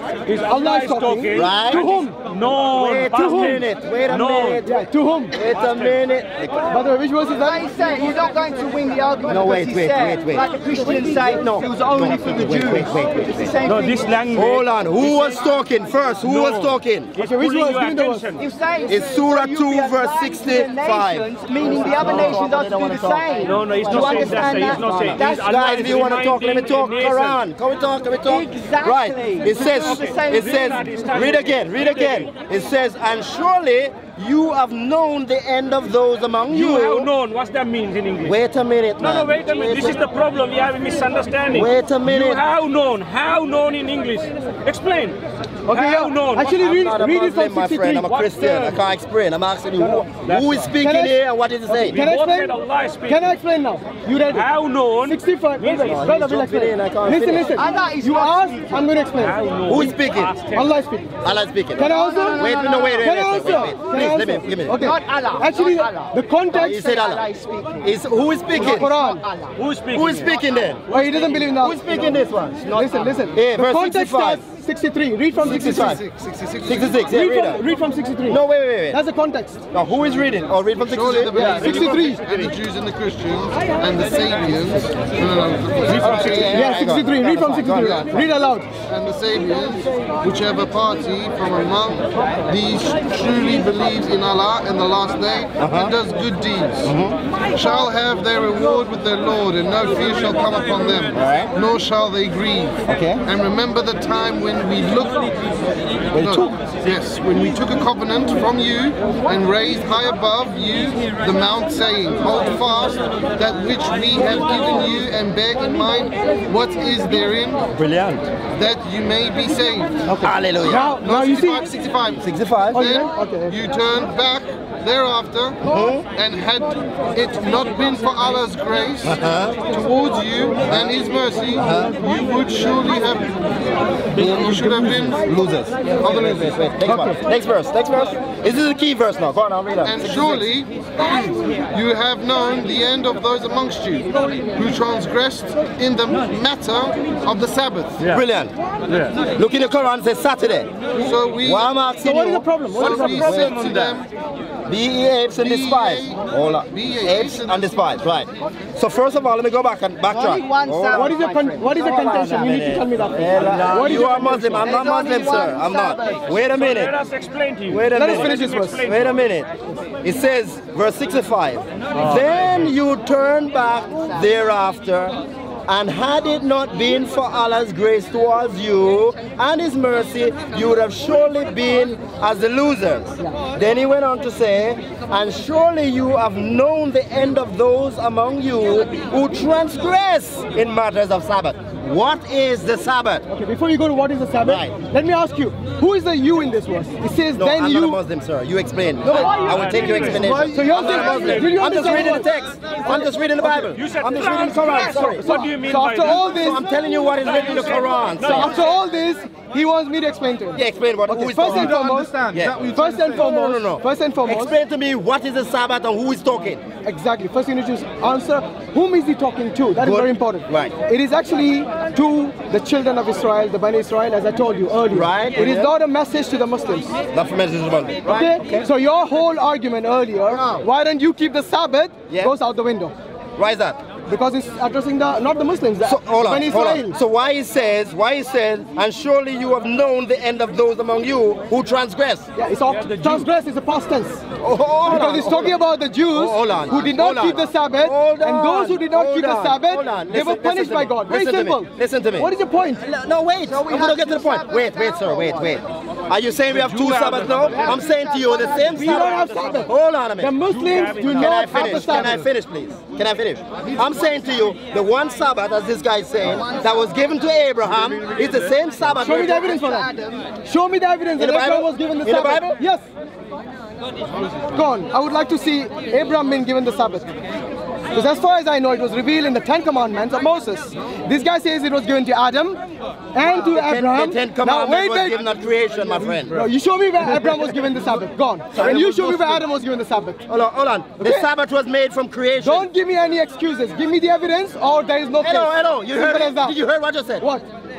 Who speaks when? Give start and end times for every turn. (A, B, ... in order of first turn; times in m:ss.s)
0:00.3-0:02.2 A
0:00.3-0:04.6 B
0:01.3-0:01.9 C
0:02.7-0:06.6 C
0:04.6-0:05.3 A
0:06.7-0:07.7 A
0:07.3-0:14.2 D
0:09.3-0:10.4 C
0:11.3-0:13.5 C
0:13.6-0:15.3 B
0:14.3-0:17.1 C
0:16.2-0:18.4 B
0:17.2-0:18.3 A
0:18.4-0:25.9 D
0:18.9-0:37.1 C
0:23.4-0:27.4 B
0:28.2-0:30.7 D
0:30.0-0:32.3 B
0:36.5-0:38.4 B
0:38.2-0:40.0 C
0:39.0-0:46.6 B
0:41.5-0:42.4 C
0:45.6-0:48.1 A
0:46.4-0:52.0 C
0:48.0-0:48.8 B
0:50.2-0:50.7 B
0:50.8-0:51.2 A
0:51.7-0:52.6 A
0:51.8-0:53.4 B
0:53.1-0:54.5 A
0:54.2-0:56.0 B
0:55.0-0:59.4 A
0:55.8-0:57.6 C
0:57.5-0:59.0 D
0:59.2-1:00.7 B
0:59.6-1:00.4 C
1:00.5-1:01.1 A
1:01.2-1:04.8 C
1:01.8-1:06.8 A
1:01.8-1:03.1 D
1:04.7-1:07.9 D
1:06.5-1:07.2 C
1:07.8-1:08.9 C
1:08.5-1:09.6 D
1:08.6-1:09.2 A
1:09.6-1:10.4 B
1:09.9-1:10.8 C
1:10.9-1:11.8 A
1:11.0-1:11.3 D
1:11.5-1:12.8 C
1:11.9-1:13.3 D
1:12.8-1:15.9 A
1:13.3-1:14.4 C
1:15.4-1:16.0 C
1:15.4-1:17.0 E
1:16.6-1:17.6 C
1:17.1-1:19.6 A
1:18.2-1:19.0 C
1:19.7-1:21.9 C
1:20.8-1:26.6 E
1:21.4-1:22.2 A
1:25.8-1:26.8 B
1:25.9-1:28.3 C
1:26.5-1:28.7 A
1:28.9-1:36.9 E
1:35.6-1:35.9 C
1:36.8-1:37.2 C
1:37.5-1:45.4 E
1:41.1-1:41.5 C
1:42.9-1:43.2 C
1:46.1-1:46.5 C
1:46.1-1:57.6 E
1:57.7-1:58.3 C
1:58.5-2:00.1 E
2:00.1-2:01.0 C
2:00.1-2:01.7 A
2:00.9-2:13.4 E
2:02.2-2:02.8 C
2:02.7-2:03.5 A
2:05.6-2:06.0 C
2:09.0-2:09.6 C
2:10.6-2:10.9 C
2:11.6-2:11.9 C
2:14.1-2:15.3 E
2:14.1-2:20.4 C
2:16.0-2:16.6 E
2:16.8-2:17.2 A
2:19.8-2:28.0 E
2:28.0-2:28.5 C
2:28.9-2:29.2 B
2:29.2-2:30.7 C
2:30.9-2:31.7 E
2:31.4-2:34.0 C
2:32.0-2:33.4 A
2:32.7-2:34.1 E
2:34.7-2:41.1 C
2:35.4-2:37.9 E
2:40.0-2:42.3 D
2:40.9-2:44.6 A
2:41.8-2:46.9 C
2:43.7-2:46.3 D
2:46.5-2:49.2 B
2:47.7-2:49.5 C
2:47.9-2:48.8 A
2:50.0-3:13.2 C
2:51.9-2:52.2 B
3:13.3-3:18.0 A
3:14.4-3:14.7 C
3:17.3-3:25.4 C
3:19.0-3:22.2 B
3:20.3-3:20.6 E
3:20.4-3:22.3 A
3:22.9-3:26.6 B
3:25.0-3:26.6 A
3:26.0-3:28.6 C
3:27.1-3:28.7 B
3:28.3-3:32.2 A
3:30.5-3:36.6 C
3:31.4-3:33.2 E
3:32.7-3:34.5 A
3:36.8-3:46.9 A
3:39.8-3:40.7 C
3:44.9-3:45.7 C
3:47.1-3:48.7 C
3:48.0-3:52.9 A
3:50.3-3:50.6 C
3:53.4-3:53.8 C
3:54.1-3:57.0 A
3:55.8-4:02.3 C
4:02.4-4:04.2 A
4:02.7-4:03.3 B
4:04.4-4:29.5 C
4:04.8-4:12.8 A
4:13.6-4:14.2 D
4:16.5-4:18.7 E
4:18.6-4:22.3 A
4:20.5-4:22.1 B
4:23.6-4:24.1 E
4:26.4-4:26.8 E
4:29.0-4:29.9 A
4:29.6-4:30.1 D
4:30.4-4:32.9 A
4:31.2-4:32.6 C
4:34.5-4:37.1 A
4:37.9-4:42.6 A
4:43.1-4:45.2 A
4:43.3-4:46.5 C
4:46.3-4:50.2 A
4:48.5-4:49.4 C
4:50.3-4:52.7 C
4:51.0-4:51.3 A
4:52.4-4:56.6 A
4:55.2-4:57.3 C
4:57.2-4:57.4 A